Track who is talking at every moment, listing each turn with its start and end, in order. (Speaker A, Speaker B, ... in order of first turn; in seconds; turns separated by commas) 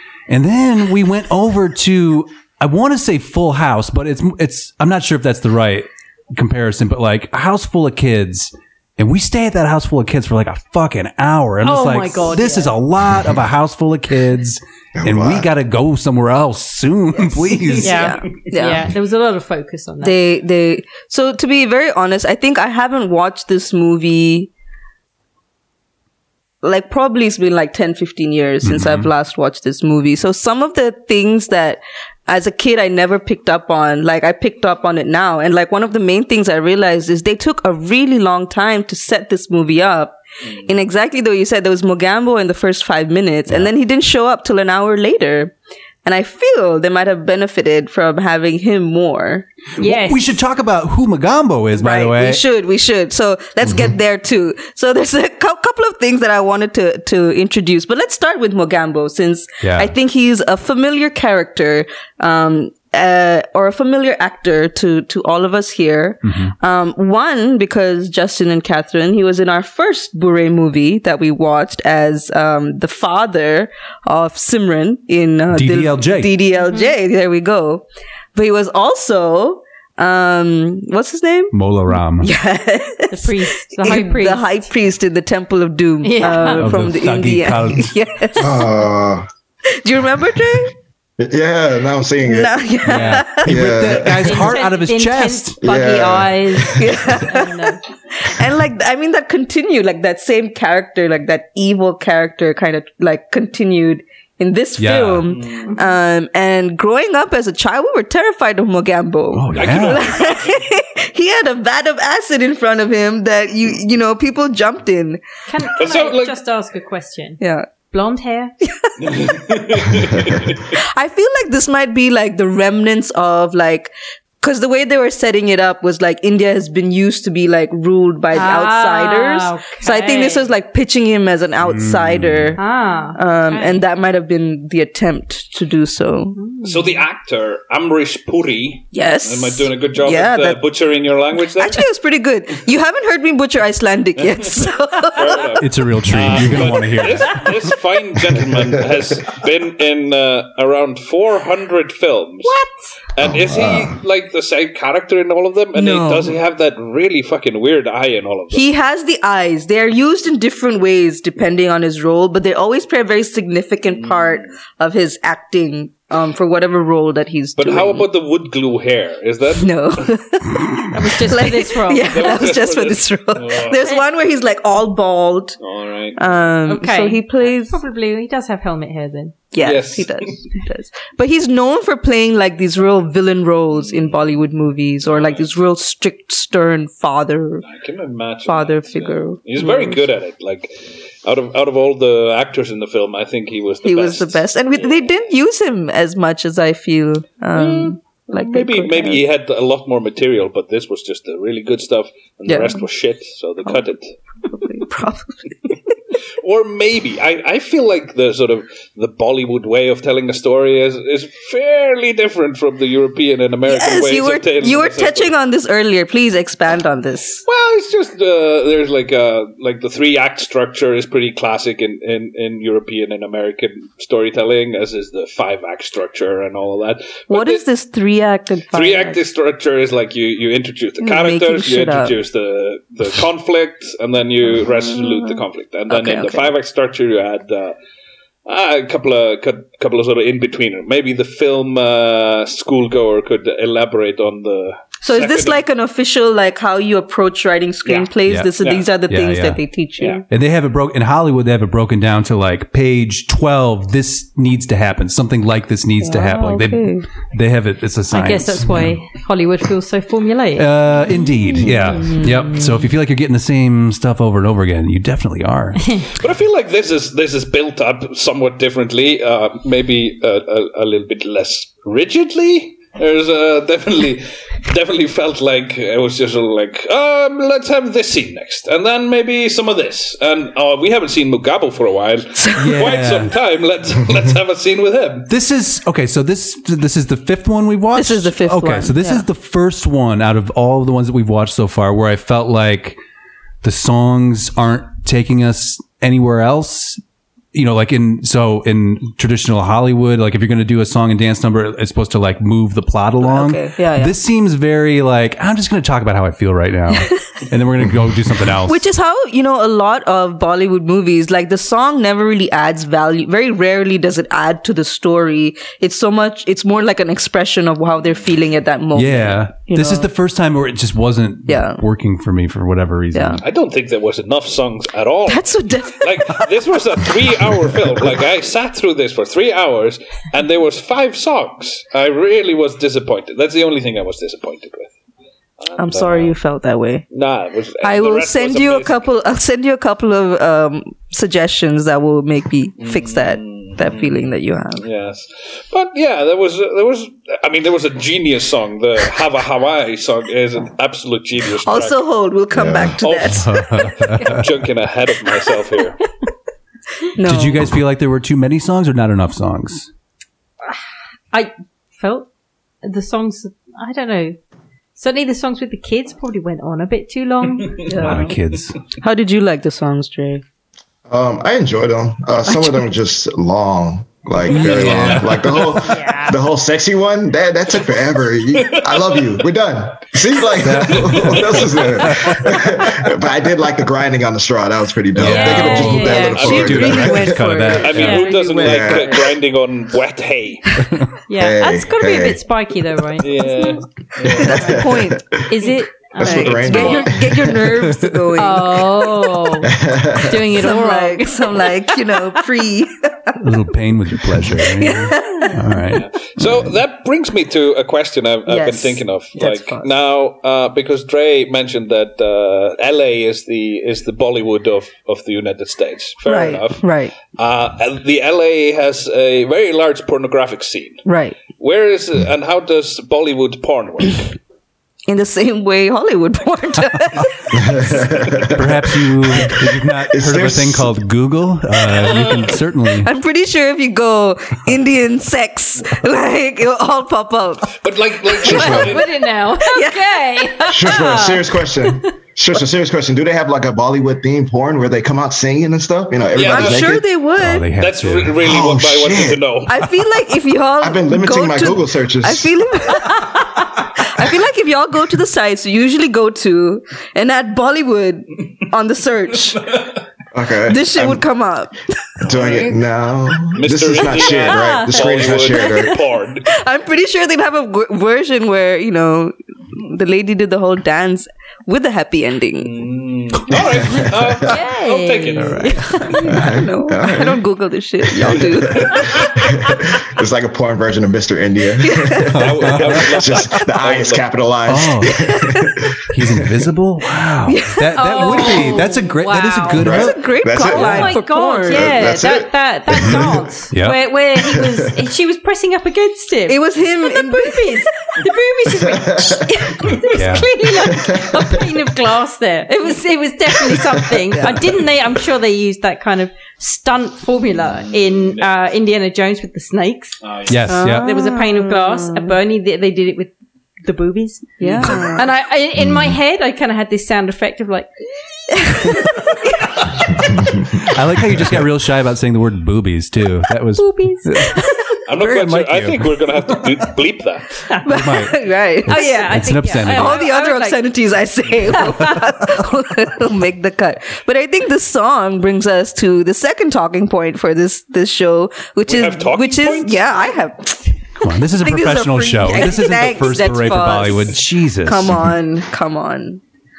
Speaker A: 0.3-18.1, Speaker B: 11.6-12.7, Speaker C: 15.0-15.5, Speaker D: 17.5-18.9, Speaker B: 17.8-20.2, Speaker D: 20.0-24.5, Speaker D: 26.6-49.5, Speaker A: 28.6-29.1, Speaker B: 49.8-50.2, Speaker A: 49.8-52.4, Speaker D: 51.8-77.8, Speaker A: 59.6-59.9, Speaker A: 66.2-66.5, Speaker A: 75.5-76.3, Speaker B: 76.6-76.9, Speaker D: 78.3-81.6, Speaker A: 81.5-82.3, Speaker D: 82.2-88.7, Speaker B: 83.1-84.7, Speaker B: 86.0-86.7, Speaker A: 86.5-87.9, Speaker C: 88.4-89.3, Speaker D: 89.7-90.7, Speaker C: 91.2-92.6, Speaker D: 92.2-93.5, Speaker A: 92.8-95.6, Speaker C: 93.4-94.5, Speaker B: 94.2-97.8, Speaker C: 95.6-97.0, Speaker D: 96.7-115.2, Speaker A: 104.8-105.3, Speaker E: 105.3-105.7, Speaker A: 109.3-110.1, Speaker E: 109.5-110.6, Speaker B: 115.5-118.5, Speaker E: 115.8-116.4, Speaker D: 117.4-117.7, Speaker D: 118.7-119.9, Speaker E: 119.0-120.7, Speaker D: 120.7-132.6, Speaker B: 128.3-130.5, Speaker A: 131.6-132.6, Speaker B: 132.6-133.8, Speaker D: 133.2-136.4, Speaker B: 136.4-137.0, Speaker E: 136.6-141.8, Speaker D: 138.9-140.6, Speaker D: 141.6-145.5, Speaker E: 144.2-152.6, Speaker A: 145.6-147.6, Speaker E: 153.1-158.7, Speaker C: 153.2-154.0, Speaker D: 155.8-156.4, Speaker D: 158.5-168.1, Speaker E: 164.0-164.5, Speaker E: 167.6-170.1, Speaker D: 169.6-175.6, Speaker B: 170.9-172.5, Speaker E: 172.1-173.9, Speaker E: 175.6-176.4, Speaker D: 176.2-177.8, Speaker B: 176.7-179.4, Speaker D: 179.5-187.7, Speaker E: 179.6-180.4, Speaker E: 183.9-184.1, Speaker E: 185.1-185.5, Speaker E: 187.6-195.1, Speaker D: 188.5-190.0, Speaker D: 193.8-199.2, Speaker E: 197.6-204.1, Speaker D: 202.5-202.8, Speaker D: 204.5-205.7, Speaker E: 206.4-215.3, Speaker D: 213.7-217.4, Speaker E: 217.5-227.6, Speaker D: 227.3-229.2, Speaker E: 228.7-237.8, Speaker D: 231.0-232.2, Speaker D: 234.8-236.5, Speaker E: 238.5-245.6, Speaker D: 245.0-250.2, Speaker A: 248.3-248.5, Speaker E: 248.6-248.9, Speaker A: 249.1-249.6, Speaker A: 250.3-259.0, Speaker D: 256.0-257.1, Speaker B: 258.1-260.7, Speaker A: 260.6-266.0, Speaker D: 261.9-262.5, Speaker B: 265.8-266.1, Speaker E: 266.1-285.3, Speaker A: 282.6-283.3, Speaker A: 285.3-293.0, Speaker D: 287.9-289.2, Speaker A: 293.6-297.0, Speaker A: 297.5-308.8, Speaker D: 303.2-304.2, Speaker D: 308.7-320.1, Speaker A: 318.9-323.4, Speaker D: 321.5-321.8, Speaker D: 323.1-323.4, Speaker E: 323.4-334.9, Speaker D: 325.3-326.5, Speaker E: 335.6-336.4, Speaker D: 335.8-337.1, Speaker E: 337.1-339.1, Speaker D: 337.8-344.8, Speaker E: 342.8-344.2, Speaker E: 344.8-352.0, Speaker D: 351.7-353.6, Speaker C: 352.5-353.0, Speaker E: 353.0-353.4, Speaker A: 353.3-354.5, Speaker E: 354.1-356.0, Speaker D: 357.1-357.6, Speaker A: 357.2-359.9, Speaker B: 361.3-362.3, Speaker B: 362.8-364.4, Speaker B: 365.0-367.9, Speaker D: 367.9-368.4, Speaker A: 368.0-368.8, Speaker D: 369.0-370.4, Speaker C: 371.1-387.4, Speaker A: 374.4-375.7, Speaker E: 374.9-375.2, Speaker B: 375.8-376.4, Speaker E: 378.5-379.3, Speaker A: 380.5-382.6, Speaker E: 380.8-381.8, Speaker A: 385.1-388.2, Speaker B: 385.2-386.8, Speaker D: 385.8-389.4, Speaker E: 386.1-386.9, Speaker E: 387.8-390.6, Speaker B: 388.0-388.4, Speaker C: 388.6-389.4, Speaker B: 391.3-393.8, Speaker C: 391.4-392.4, Speaker E: 393.2-394.6, Speaker D: 394.2-395.2, Speaker C: 394.3-397.7, Speaker B: 394.6-394.9, Speaker B: 395.5-397.0, Speaker D: 396.2-399.6, Speaker E: 396.5-397.1, Speaker A: 397.8-398.2, Speaker B: 398.4-402.4, Speaker C: 399.6-400.5, Speaker D: 400.5-403.4, Speaker A: 403.4-406.7, Speaker D: 404.6-405.6, Speaker E: 405.9-424.4, Speaker D: 408.5-409.9, Speaker D: 416.2-417.1, Speaker D: 421.1-421.4, Speaker D: 425.1-428.0, Speaker C: 427.5-428.8, Speaker A: 428.5-433.1, Speaker C: 429.4-430.9, Speaker E: 431.9-432.6, Speaker D: 432.9-438.4, Speaker E: 437.8-439.1, Speaker B: 438.4-442.1, Speaker C: 438.4-439.0, Speaker D: 439.6-440.7, Speaker C: 440.7-447.1, Speaker E: 446.3-447.0, Speaker D: 446.4-447.7, Speaker A: 447.4-448.4, Speaker E: 447.8-449.9, Speaker C: 448.4-449.4, Speaker D: 449.7-459.8, Speaker C: 450.8-452.6, Speaker C: 460.3-461.2, Speaker D: 460.7-462.2, Speaker E: 462.2-462.8, Speaker C: 462.2-466.1, Speaker E: 463.5-466.5, Speaker B: 464.3-465.9, Speaker D: 466.4-472.9, Speaker E: 472.6-475.8, Speaker C: 473.5-474.1, Speaker B: 474.4-476.5, Speaker D: 475.6-479.2, Speaker C: 476.2-477.4, Speaker C: 478.1-486.6, Speaker E: 478.9-479.3, Speaker D: 481.8-482.4, Speaker E: 482.3-484.3, Speaker A: 482.4-483.0, Speaker A: 484.7-485.2, Speaker D: 485.1-485.8, Speaker A: 486.1-490.2, Speaker D: 487.5-488.8, Speaker B: 487.9-489.9, Speaker C: 489.8-491.2, Speaker D: 489.8-492.0, Speaker B: 490.6-510.2, Speaker C: 491.7-493.4, Speaker A: 492.9-494.0, Speaker C: 494.4-494.9, Speaker D: 496.5-497.9, Speaker C: 498.8-499.9, Speaker A: 500.1-500.5, Speaker C: 500.8-501.7, Speaker C: 503.7-504.1, Speaker D: 504.3-504.6, Speaker E: 508.0-508.6, Speaker E: 510.2-510.7, Speaker A: 510.5-511.1, Speaker D: 510.7-512.4, Speaker B: 510.8-513.3, Speaker B: 513.9-517.9, Speaker D: 514.6-515.3, Speaker B: 518.5-520.4, Speaker D: 518.6-519.7, Speaker A: 520.8-524.6, Speaker B: 523.8-524.6, Speaker E: 525.1-527.6, Speaker A: 525.1-526.8, Speaker D: 527.8-546.4, Speaker A: 527.9-530.2, Speaker B: 528.9-530.8, Speaker B: 531.7-532.2, Speaker E: 538.9-540.1, Speaker A: 541.2-545.2